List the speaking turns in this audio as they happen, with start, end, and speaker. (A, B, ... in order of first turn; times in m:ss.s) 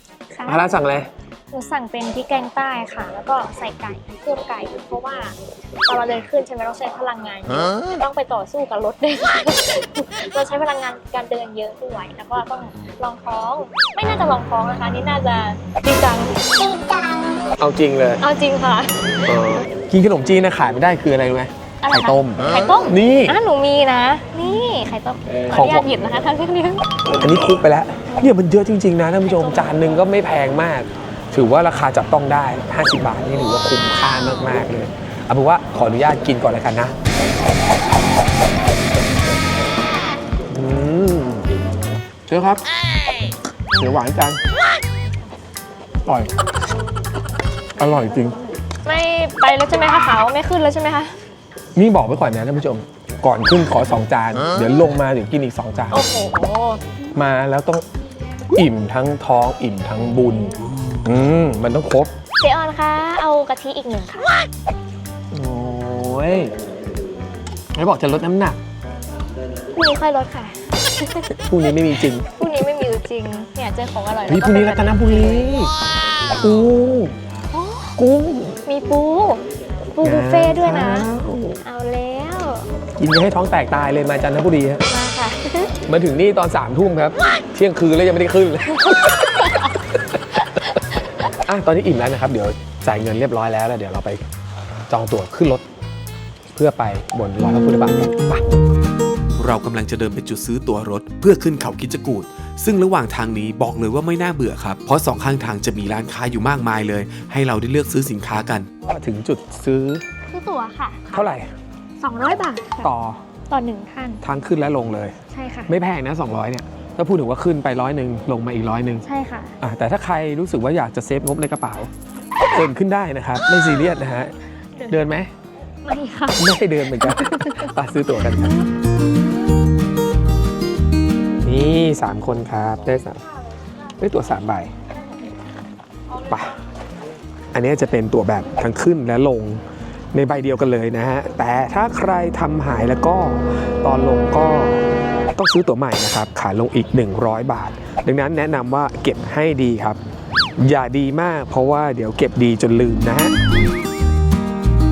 0:00.3-0:00.7 A
0:00.5-0:01.1 B
0:01.5-0:17.6 A
0:17.6-0:18.2 B
0:18.2-0:19.5 A
0:19.2-0:23.4 B
0:21.8-0:26.8 A
0:25.5-0:25.9 B
0:27.2-0:37.0 B
0:29.3-0:29.8 A
0:40.5-0:41.5 B
0:42.3-0:42.6 B
0:43.8-0:44.4 B
0:46.1-0:46.3 B
0:47.8-0:48.4 B
0:48.8-0:51.2 A
0:51.8-0:56.0 B
0:55.9-0:56.8 A
0:57.2-0:57.8 B
0:58.5-1:02.1 B
1:02.4-1:04.3 A
1:05.3-1:06.5 B
1:07.7-1:08.6 B
1:09.7-1:11.4 A
1:11.4-1:12.3 B
1:12.2-1:15.5 A
1:14.3-1:15.7 B
1:16.4-1:17.2 B
1:17.5-1:18.0 A
1:18.0-1:18.6 B
1:18.7-1:19.4 A
1:20.0-1:22.7 A
1:20.0-1:21.6 B
1:23.0-1:24.8 B
1:24.9-1:25.7 A
1:25.9-1:29.6 B
1:31.3-1:34.2 B
1:34.9-1:35.6 B
1:36.6-1:38.4 B
1:39.4-1:48.7 C
1:48.8-1:50.0 B
1:50.3-1:51.3 A
1:51.1-1:51.5 B
1:52.0-1:52.9 A
1:52.8-1:53.2 B
1:53.5-1:54.2 A
1:54.2-1:55.2 B
1:55.3-1:55.7 A
1:55.7-1:59.0 B
1:59.0-1:59.6 A
1:59.6-2:01.9 B
2:02.5-2:04.3 B
2:04.9-2:05.3 B
2:05.8-2:07.7 A
2:06.4-2:08.7 B
2:11.4-2:13.2 B
2:14.0-2:14.7 B
2:16.3-2:16.5 B
2:17.5-2:19.6 B
2:20.1-2:24.8 B
2:25.4-2:30.0 B
2:30.6-2:33.3 B